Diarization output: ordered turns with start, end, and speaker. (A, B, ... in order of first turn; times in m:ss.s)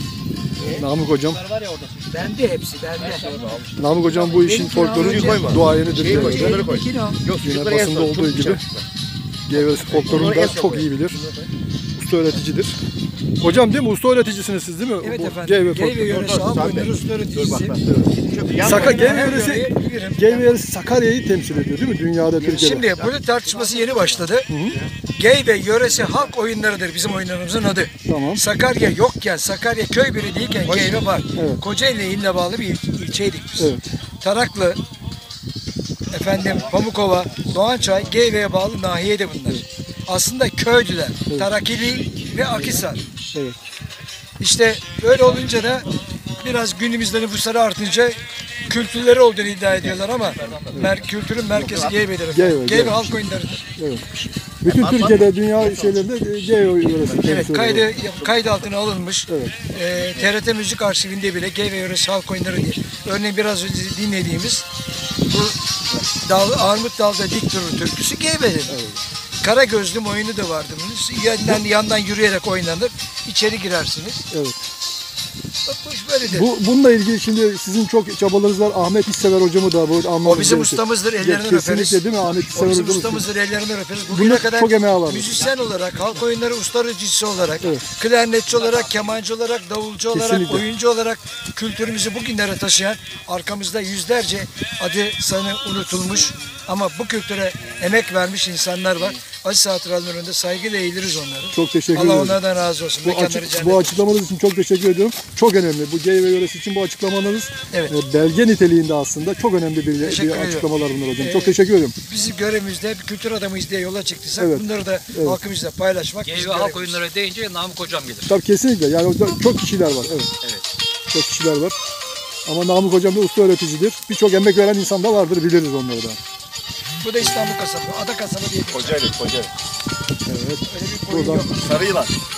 0:00.6-0:01.4 A
0:01.4-0:02.2 B
0:02.1-0:03.6 C
0:03.0-0:03.7 B
0:03.1-0:03.7 D
0:03.8-0:06.6 A
0:04.3-0:07.2 C
0:04.8-0:08.8 D
0:07.4-0:08.6 A
0:09.5-0:11.2 A
0:09.5-0:11.5 D
0:12.0-0:12.8 A
0:13.4-0:16.1 A
0:15.0-0:17.8 C
0:16.0-0:19.4 D
0:18.6-0:20.4 C
0:18.6-0:22.9 A
0:22.4-0:23.1 D
0:22.5-0:24.5 C
0:23.6-0:24.2 B
0:24.5-0:24.8 A
0:25.1-0:34.8 C
0:28.0-0:28.4 A
0:30.7-0:31.6 A
0:33.6-0:33.9 A
0:36.1-0:43.0 C
0:43.3-0:43.6 A
0:44.4-0:53.6 C
0:50.4-0:50.7 D
0:51.6-0:52.0 D
0:52.3-0:53.2 A
0:53.8-0:58.0 A
0:54.6-0:56.0 D
0:57.1-1:04.6 C
0:59.3-0:59.6 A
1:05.3-1:08.8 C
1:08.7-1:09.0 A
1:09.4-1:14.2 C
1:14.3-1:14.6 A
1:15.7-1:16.5 C
1:16.3-1:23.2 A
1:20.2-1:44.1 C
1:24.1-1:25.4 A
1:27.6-1:27.9 A
1:30.1-1:30.6 A
1:41.5-1:42.4 A
1:43.0-1:51.9 A
1:50.0-1:57.0 C
1:54.4-1:55.4 A
1:56.2-1:58.3 B
1:58.2-2:00.3 A
2:01.1-2:01.8 A
2:02.4-2:06.2 A
2:07.0-2:09.0 C
2:08.7-2:09.5 D
2:10.2-2:11.5 A
2:10.6-2:11.9 C
2:11.6-2:12.1 D